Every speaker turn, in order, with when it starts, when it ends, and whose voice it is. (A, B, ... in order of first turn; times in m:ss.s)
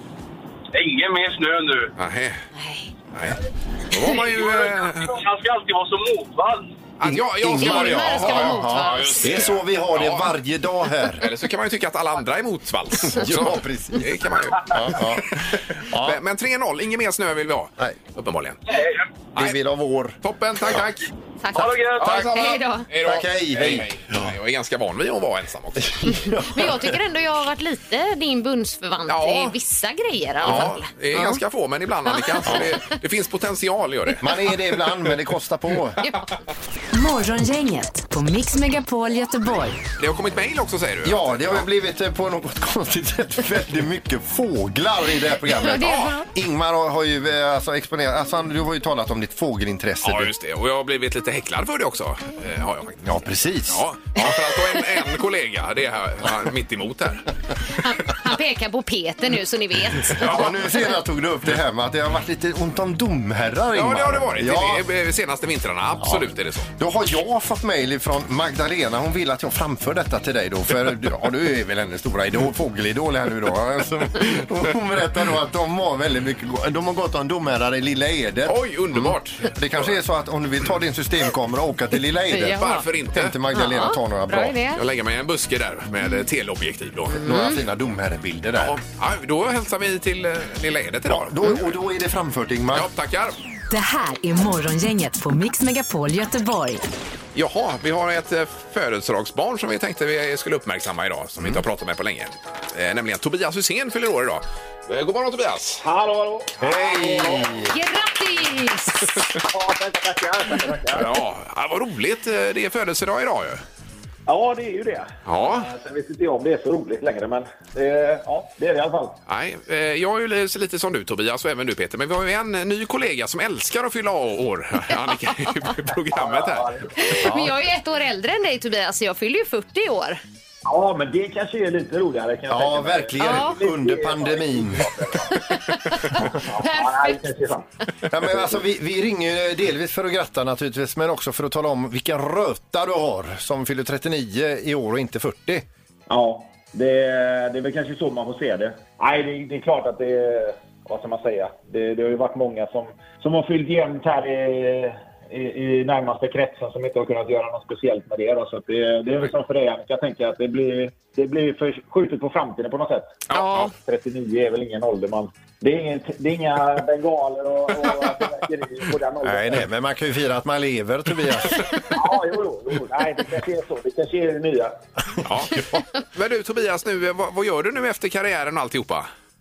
0:00.7-0:01.9 A
0:02.0-0:02.4 B
0:02.5-0:02.9 C
0:03.9-0:05.2 B
0:04.1-0:06.7 A
0:07.0-0:10.3 B
0:07.0-0:11.3 D
0:07.6-0:09.2 C
0:11.2-0:18.6 B
0:13.0-0:16.2 D
0:18.7-0:19.0 A
0:19.4-0:20.2 D
0:20.2-0:21.0 B
0:21.4-0:22.9 C
0:21.5-0:22.2 A
0:22.0-0:26.3 B
0:23.0-0:23.9 D
0:26.0-0:26.9 D
0:26.3-0:31.4 C
0:29.1-0:29.5 B
0:30.4-0:34.5 B
0:32.1-0:32.8 C
0:34.2-0:36.0 D
0:36.0-0:36.3 C
0:36.9-0:39.8 E
0:40.0-0:41.6 B
0:41.0-0:50.3 D
0:45.6-0:46.3 C
0:50.0-0:53.2 B
0:53.0-0:53.8 D
0:53.7-0:57.3 B
0:57.8-1:00.4 C
1:00.2-1:00.6 B
1:00.2-1:04.8 D
1:03.7-1:06.7 B
1:06.0-1:24.6 D
1:18.4-1:19.9 B
1:22.3-1:22.8 C
1:22.4-1:23.4 B
1:23.5-1:24.8 C
1:24.7-1:27.2 B
1:27.2-1:28.8 D
1:27.2-1:27.6 C
1:28.6-1:31.7 B
1:31.1-1:32.9 D
1:32.7-1:33.4 B
1:33.7-1:36.8 E
1:37.3-1:45.8 B
1:45.8-1:47.5 F
1:46.6-1:47.7 D
1:46.9-1:47.6 B
1:47.7-1:49.2 C
1:49.4-1:51.1 F
1:50.9-1:53.6 B
1:54.3-1:59.2 F
1:55.2-1:55.7 B
1:59.3-2:06.7 B
2:06.1-2:07.2 F
2:07.0-2:10.2 C
2:07.2-2:07.5 D
2:10.6-2:15.4 F
2:12.5-2:15.0 D
2:13.2-2:13.6 C
2:15.3-2:17.2 C
2:16.2-2:17.7 F
2:18.1-2:25.6 D
2:26.1-2:43.2 F
2:43.3-2:43.7 B
2:43.3-2:43.7 C
2:43.7-2:49.6 F
2:49.2-2:51.6 D
2:51.9-2:54.8 F
2:55.2-2:59.1 B